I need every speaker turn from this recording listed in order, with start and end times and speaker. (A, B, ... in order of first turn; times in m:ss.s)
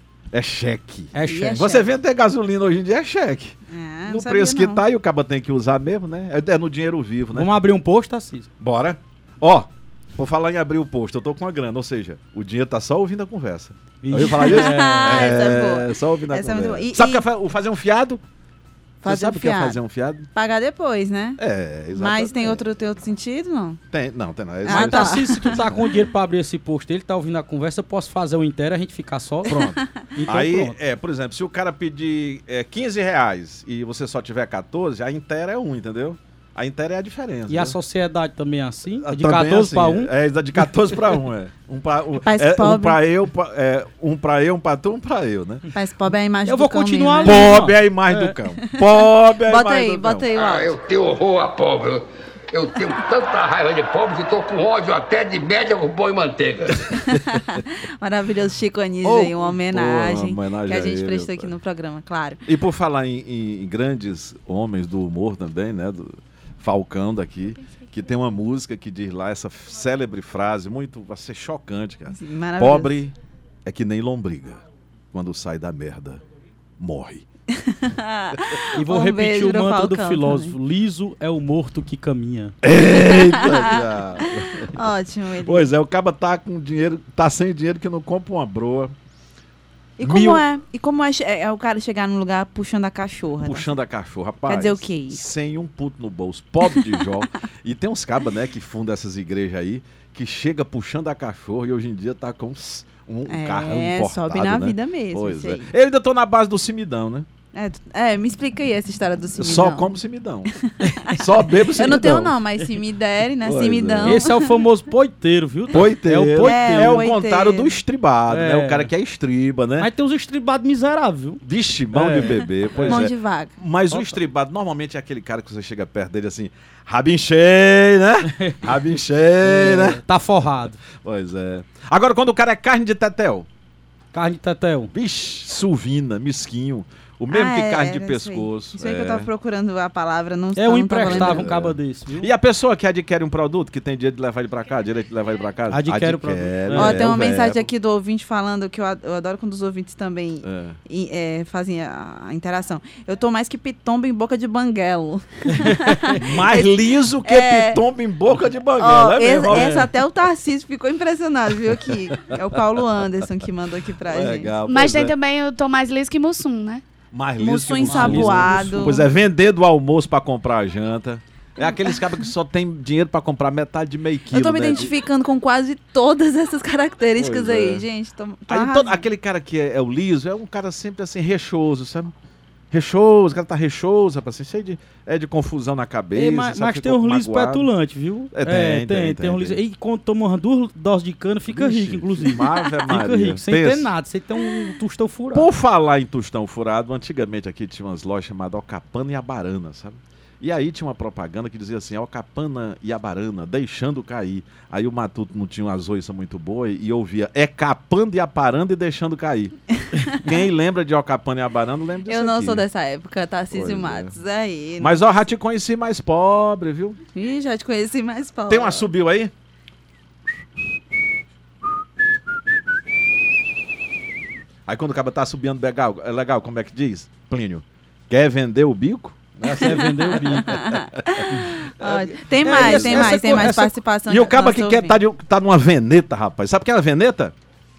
0:00.3-0:07.5 A
0:01.1-0:01.6 B
0:01.2-0:01.9 C
0:03.7-0:04.8 C
0:07.3-0:08.5 B
0:08.6-0:18.2 A
0:14.0-0:15.3 B
0:14.2-0:17.3 C
0:19.0-0:19.8 C
0:19.0-0:20.3 A
0:20.3-0:21.4 C
0:21.4-0:22.6 A
0:21.9-0:23.8 C
0:23.9-0:25.8 A
0:24.6-0:25.6 C
0:24.7-0:30.8 B
0:29.5-0:37.8 A
0:29.5-0:29.9 C
0:37.5-0:40.1 B
0:39.0-0:45.7 A
0:40.9-0:41.2 B
0:42.2-0:43.0 C
0:45.7-0:47.6 C
0:46.4-0:48.4 B
0:47.2-0:50.3 A
0:48.7-0:50.8 C
0:50.4-0:57.0 D
0:56.9-1:02.4 C
0:59.0-1:01.5 A
1:02.5-1:16.2 A
1:12.1-1:13.0 C
1:16.8-1:17.2 A
1:17.5-1:20.6 C
1:18.8-1:22.6 B
1:22.6-1:24.8 A
1:22.8-1:25.7 C
1:25.4-1:28.9 A
1:30.0-1:33.7 C
1:30.0-1:30.5 A
1:33.4-1:47.3 A
1:34.5-1:35.2 C
1:36.7-1:37.1 C
1:43.3-1:45.7 C
1:47.5-1:49.9 C
1:49.4-1:50.5 A
1:50.5-1:54.5 C
1:50.8-1:51.1 B
1:51.1-1:52.4 A
1:53.4-1:54.2 A
1:54.0-1:57.1 B
1:55.7-1:59.9 A
1:56.4-1:57.8 C
1:58.3-1:58.9 B
1:59.8-2:01.4 B
2:01.4-2:10.0 A
2:01.9-2:03.1 B
2:02.8-2:03.6 C
2:03.9-2:04.2 B
2:08.3-2:08.8 B
2:09.4-2:10.8 B
2:11.0-2:13.5 A
2:14.1-2:14.9 B
2:14.9-2:19.3 A
2:17.3-2:21.5 C
2:20.6-2:22.3 B
2:21.0-2:27.7 A
2:25.7-2:27.1 B
2:26.7-2:37.8 C
2:30.4-2:30.8 A
2:35.6-2:36.2 B
2:36.2-2:39.9 A
2:38.8-2:44.5 C
2:39.4-2:39.9 B
2:44.0-2:45.2 A
2:44.6-2:46.8 E
2:47.1-2:54.9 A
2:47.4-2:49.1 C
2:47.8-2:49.0 B
2:54.3-2:59.1 C
2:57.2-2:57.8 A
2:58.5-3:02.1 A
3:02.7-3:07.7 A
3:06.2-3:15.5 B
3:08.3-3:09.6 A
3:11.5-3:13.9 A
3:15.3-3:32.7 A
3:29.8-3:30.3 C
3:32.1-3:35.0 C
3:33.5-3:34.2 A
3:34.8-3:37.0 A
3:37.1-3:38.9 C
3:38.5-3:39.3 A
3:44.7-3:53.6 A
3:49.5-3:50.7 B
3:49.5-3:55.0 C
3:51.3-3:51.6 B
3:52.4-3:53.8 B
3:54.1-3:57.3 A